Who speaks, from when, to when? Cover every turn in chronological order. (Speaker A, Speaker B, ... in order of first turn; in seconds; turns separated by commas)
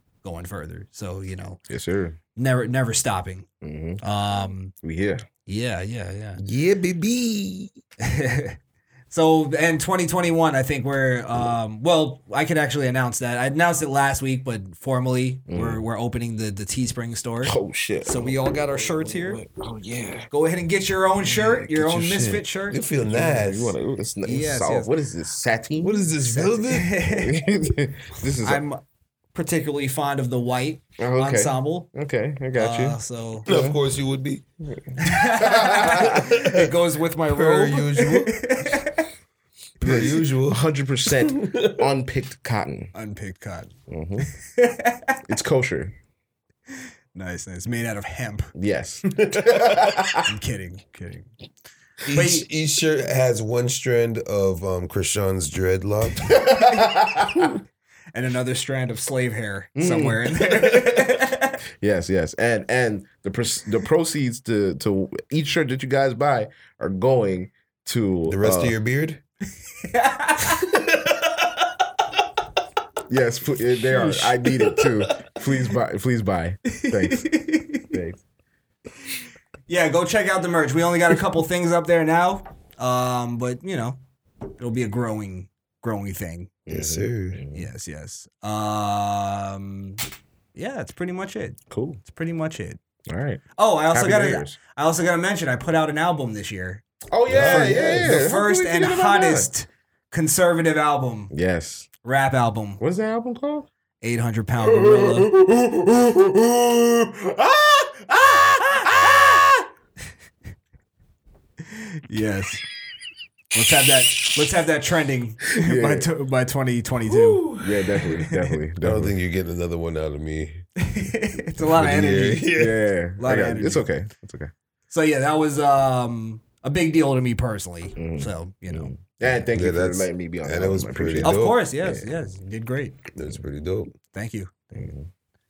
Speaker A: 0.2-1.6, Speaker B: 1.7-2.2, Speaker A: 2.4-3.5, Speaker B: 3.6-4.0, Speaker A: 4.0-4.7, Speaker B: 4.8-5.2, Speaker A: 5.5-6.4, Speaker C: 6.4-7.7, Speaker A: 8.0-8.6, Speaker A: 9.1-19.4, Speaker B: 15.5-15.8, Speaker B: 17.4-18.4, Speaker B: 19.0-20.3, Speaker A: 20.3-22.8, Speaker C: 21.5-23.8, Speaker B: 23.0-26.1, Speaker A: 24.2-24.9, Speaker C: 25.8-26.9, Speaker A: 26.3-27.4, Speaker B: 27.0-28.6, Speaker A: 28.4-28.8, Speaker A: 29.3-31.9, Speaker B: 31.0-33.8, Speaker A: 32.5-33.5, Speaker C: 33.5-34.5, Speaker A: 35.0-39.0, Speaker B: 35.4-36.3, Speaker C: 35.8-36.7, Speaker C: 37.3-38.5, Speaker C: 39.8-41.9, Speaker B: 39.8-42.9, Speaker A: 43.0-43.7, Speaker B: 43.9-44.3, Speaker A: 44.5-45.2, Speaker B: 45.3-45.9, Speaker A: 47.1-48.5, Speaker B: 48.5-50.3, Speaker C: 49.2-49.7, Speaker A: 50.3-51.3, Speaker C: 52.1-56.4, Speaker A: 52.1-52.5, Speaker B: 56.3-57.5, Speaker A: 58.1-61.6, Speaker B: 59.8-60.8, Speaker B: 61.8-68.8, Speaker C: 68.3-69.2, Speaker A: 69.8-70.7, Speaker C: 70.6-71.5, Speaker B: 73.1-77.3, Speaker A: 76.8-77.9, Speaker B: 77.9-78.2, Speaker A: 79.7-84.0, Speaker A: 84.6-86.5, Speaker B: 86.7-87.7, Speaker C: 86.7-87.4, Speaker A: 87.5-90.0, Speaker A: 90.5-92.8, Speaker B: 91.7-92.0, Speaker B: 93.1-94.6, Speaker A: 93.6-101.3, Speaker B: 97.1-99.5, Speaker C: 97.3-98.2, Speaker B: 101.3-101.9, Speaker A: 102.0-102.8, Speaker B: 102.8-103.7, Speaker A: 104.0-105.3, Speaker B: 104.6-109.6, Speaker A: 111.7-112.6, Speaker A: 113.5-118.5, Speaker B: 115.6-116.1, Speaker B: 117.1-119.2, Speaker C: 118.8-120.7, Speaker A: 120.8-122.5, Speaker C: 121.6-122.8, Speaker B: 122.5-124.5, Speaker A: 123.2-123.8, Speaker A: 124.9-128.9, Speaker B: 128.0-132.1, Speaker C: 129.5-131.6, Speaker A: 131.2-133.0, Speaker C: 133.1-133.9, Speaker A: 134.1-134.8, Speaker B: 134.7-135.1